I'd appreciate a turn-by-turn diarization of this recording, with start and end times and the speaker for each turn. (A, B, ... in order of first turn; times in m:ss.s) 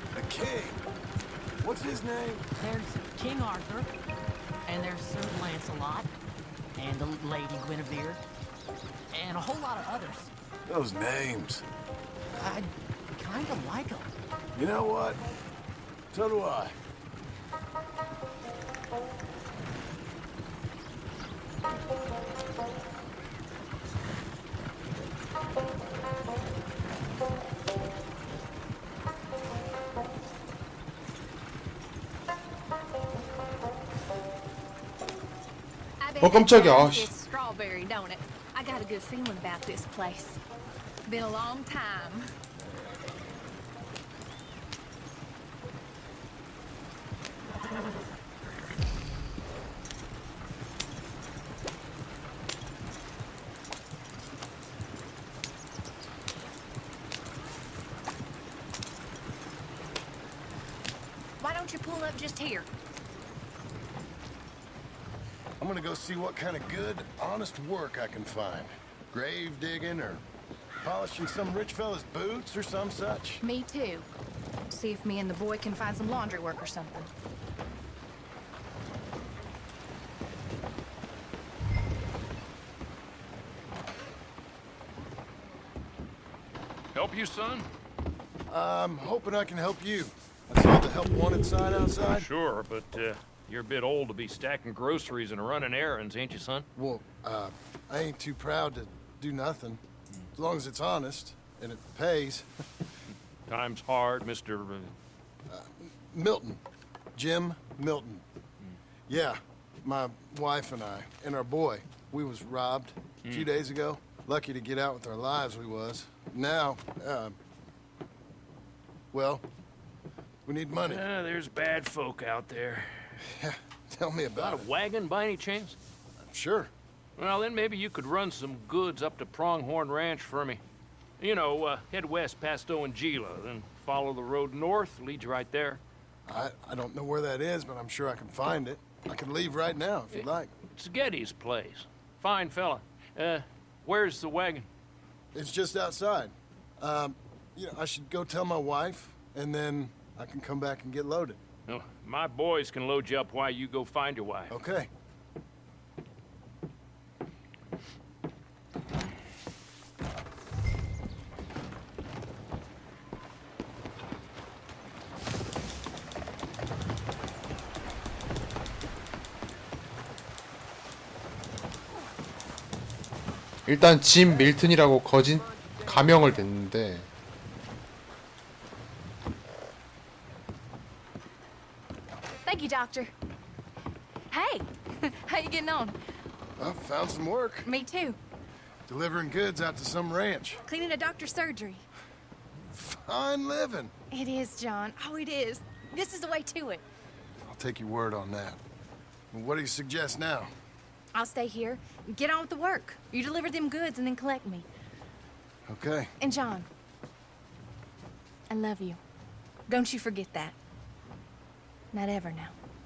0:00.1-0:00.8 A
0:01.6-0:02.5 A
0:02.6-0:03.9 B
0:04.7-0:06.1 B
0:06.8-0:08.2 B
0:09.1-0:10.3 B
0:10.7-0:11.6 A
0:12.4-0:14.1 B
0:14.6-0:15.2 A
0:16.1-0:16.8 A
0:36.0-0:40.4 C
0:36.2-0:37.1 D
0:41.1-0:42.3 C
1:01.4-1:02.7 C
1:05.6-1:10.2 A
1:10.8-1:13.4 A
1:13.4-1:14.1 C
1:14.7-1:17.1 C
1:26.9-1:27.7 E
1:28.5-1:32.3 A
1:32.0-1:36.7 E
1:36.8-1:39.8 A
1:40.4-1:42.5 A
1:43.5-1:44.9 E
1:45.5-1:46.6 A
1:47.2-1:48.2 A
1:49.1-1:57.4 A
1:59.1-1:59.4 A
2:00.5-2:01.0 A
2:00.9-2:03.1 E
2:03.3-2:04.7 A
2:04.3-2:05.8 E
2:06.2-2:06.7 A
2:07.2-2:10.6 E
2:11.2-2:15.8 E
2:16.3-2:20.5 A
2:20.1-2:24.7 E
2:25.3-2:31.4 A
2:31.7-2:34.5 E
2:34.5-2:34.9 A
2:53.7-2:57.1 D
3:02.4-3:03.1 C
3:04.3-3:06.0 C
3:06.6-3:07.7 A
3:07.6-3:08.2 C
3:08.9-3:10.6 A
3:10.7-3:11.8 C
3:12.7-3:13.9 A
3:14.1-3:16.8 C
3:17.5-3:18.6 A
3:19.3-3:20.5 A
3:21.1-3:24.7 C
3:25.7-3:26.1 A
3:26.2-3:26.7 C
3:28.5-3:29.0 C
3:29.7-3:30.6 C
3:31.9-3:32.5 C